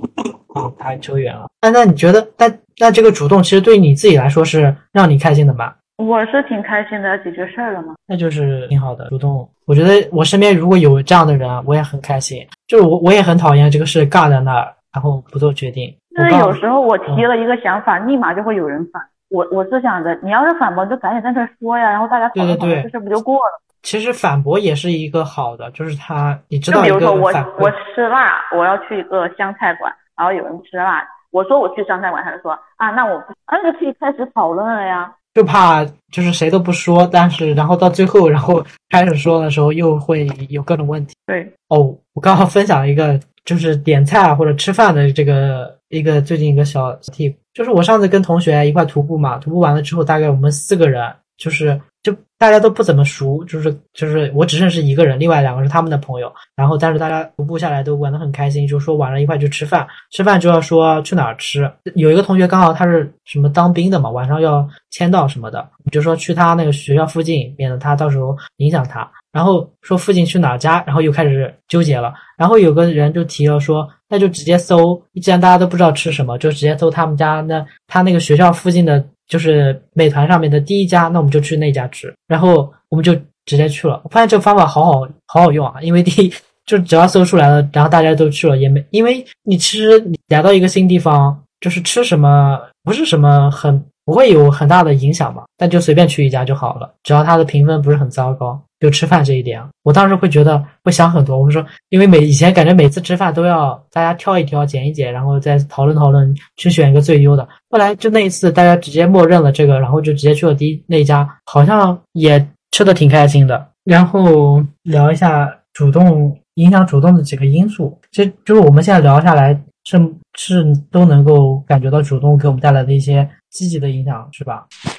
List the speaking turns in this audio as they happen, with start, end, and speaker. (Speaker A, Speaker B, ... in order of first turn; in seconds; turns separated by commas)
Speaker A: 0.5-5.7, Speaker B: 6.0-8.0, Speaker A: 8.1-17.3, Speaker B: 16.1-23.5, Speaker A: 22.3-22.9, Speaker A: 23.8-27.7, Speaker B: 26.7-35.1, Speaker A: 35.3-41.1, Speaker A: 41.7-124.7